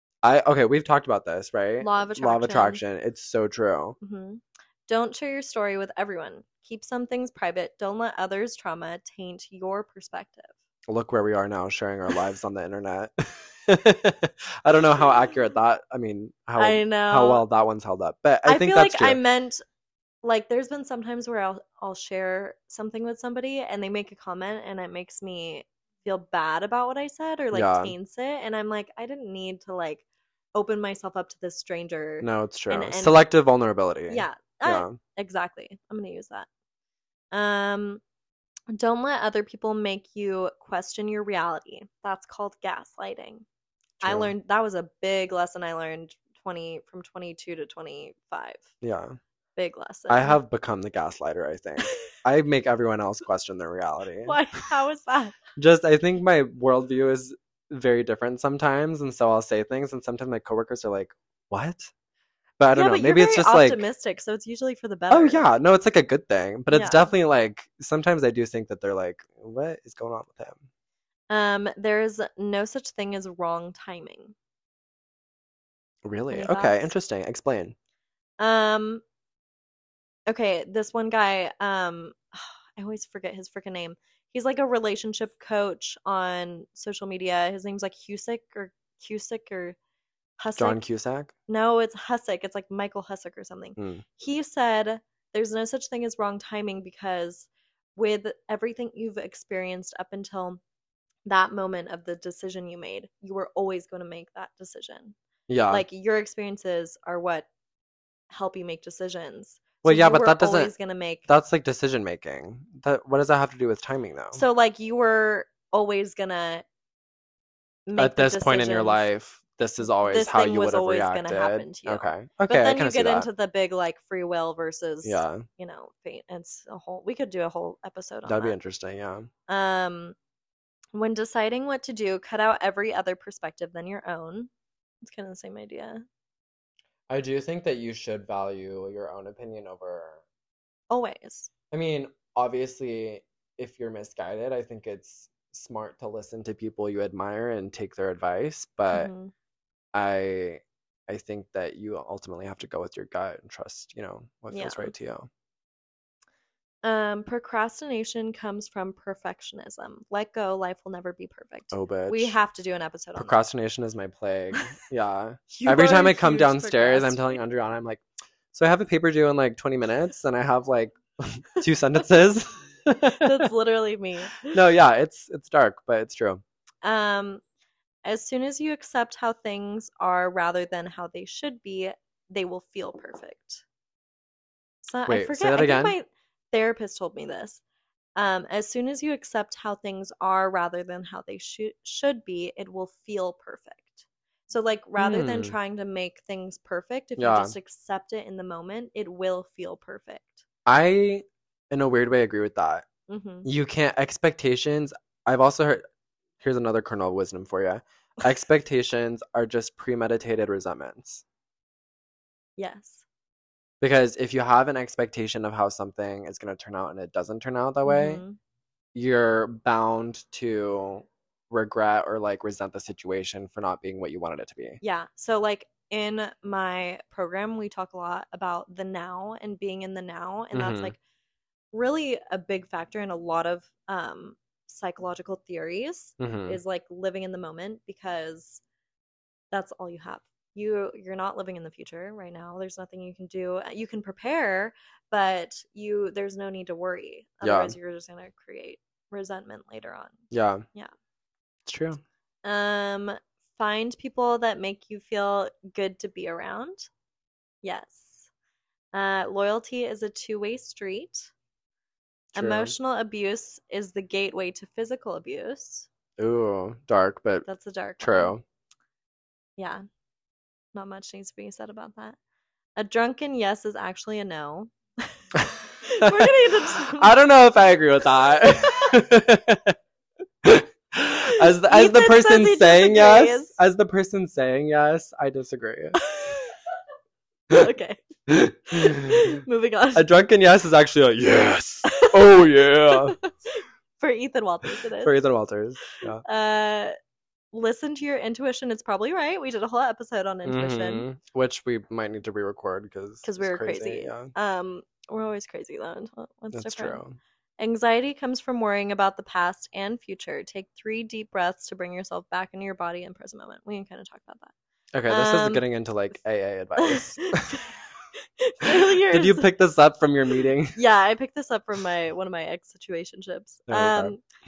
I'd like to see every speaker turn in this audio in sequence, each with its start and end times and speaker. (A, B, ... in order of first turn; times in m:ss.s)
0:00.2-0:04.0 A
0:01.8-0:02.8 B
0:04.0-0:10.5 B
0:10.9-0:19.2 A
0:16.6-0:17.4 B
0:18.4-0:19.6 B
0:20.2-0:33.2 B
0:27.5-0:27.9 A
0:32.2-0:35.0 A
0:34.1-0:36.5 B
0:37.3-0:38.0 B
0:38.7-0:43.4 B
0:44.0-0:44.3 A
0:44.0-0:48.7 B
0:48.8-0:49.2 A
0:49.6-0:50.4 B
0:50.1-0:54.4 A
0:54.2-0:55.4 B
0:55.6-1:01.9 A
1:02.6-1:03.8 A
1:02.7-1:05.5 B
1:05.1-1:10.6 A
1:06.7-1:07.1 B
1:11.3-1:14.4 B
1:16.0-1:17.7 A
1:16.3-1:16.9 B
1:18.4-1:19.0 B
1:20.3-1:29.8 B
1:30.4-1:30.8 B
1:30.6-1:31.3 A
1:31.5-1:40.6 B
1:33.8-1:34.0 A
1:41.2-1:45.2 B
1:45.5-1:45.8 A
1:45.7-1:47.5 B
1:48.3-1:51.2 B
1:49.8-1:50.7 A
1:51.3-1:54.4 A
1:54.3-1:56.6 B
1:57.9-1:59.0 B
1:58.0-2:03.3 A
2:00.0-2:08.6 B
2:05.0-2:05.4 A
2:08.2-2:09.3 A
2:09.5-2:10.1 B
2:10.9-2:14.5 B
2:15.0-2:16.0 B
2:17.1-2:20.2 A
2:20.9-2:21.5 B
2:21.7-2:29.1 A
2:28.9-2:29.3 B
2:29.9-2:35.3 A
2:34.5-2:34.9 B
2:36.8-2:43.4 B
2:41.7-2:42.4 A
2:43.2-2:53.5 A
2:45.5-2:47.3 B
2:53.1-2:54.5 B
2:54.4-2:56.4 A
2:56.8-2:57.4 B
2:58.0-3:03.6 B
3:04.8-3:07.6 B
3:05.1-3:05.9 A
3:08.2-3:20.4 B
3:15.0-3:15.6 A
3:17.2-3:17.6 A
3:20.6-3:22.9 A
3:23.1-3:23.5 B
3:23.4-3:25.8 A
3:26.4-3:31.2 A
3:32.6-3:33.0 B
3:33.8-3:38.2 A
3:37.8-3:38.4 B
3:38.9-3:44.8 A
3:44.8-3:51.0 B
3:50.5-3:50.9 A
3:51.7-3:58.6 B
3:56.2-3:56.6 A
3:59.5-4:10.9 B
4:07.4-4:07.8 A
4:10.3-4:10.6 A
4:11.6-4:12.0 A
4:12.4-4:16.9 B
4:17.6-4:18.3 B
4:18.9-4:21.3 B
4:22.3-4:25.9 B
4:22.4-4:22.7 A
4:26.2-4:27.4 A
4:27.4-4:28.3 B
4:28.0-4:28.4 A
4:29.6-4:29.8 B
4:30.7-4:32.2 B
4:32.8-4:35.1 B
4:35.4-4:39.8 A
4:35.8-4:37.2 B
4:40.4-4:46.0 A
4:41.3-4:43.6 B
4:46.0-4:46.6 B
4:47.5-4:48.0 B
4:48.3-4:49.3 A
4:48.7-4:50.1 B
4:49.9-4:53.2 A
4:51.9-4:55.2 B
4:55.0-4:56.2 A
4:56.2-4:56.9 B
4:57.5-5:01.1 B
5:00.4-5:04.3 A
5:03.2-5:07.0 B
5:06.5-5:07.2 A
5:07.6-5:14.5 B
5:14.9-5:17.7 A
5:15.1-5:15.6 B
5:16.8-5:17.7 B
5:18.4-5:19.5 B
5:18.6-5:20.8 A
5:20.7-5:24.2 B
5:23.7-5:24.1 A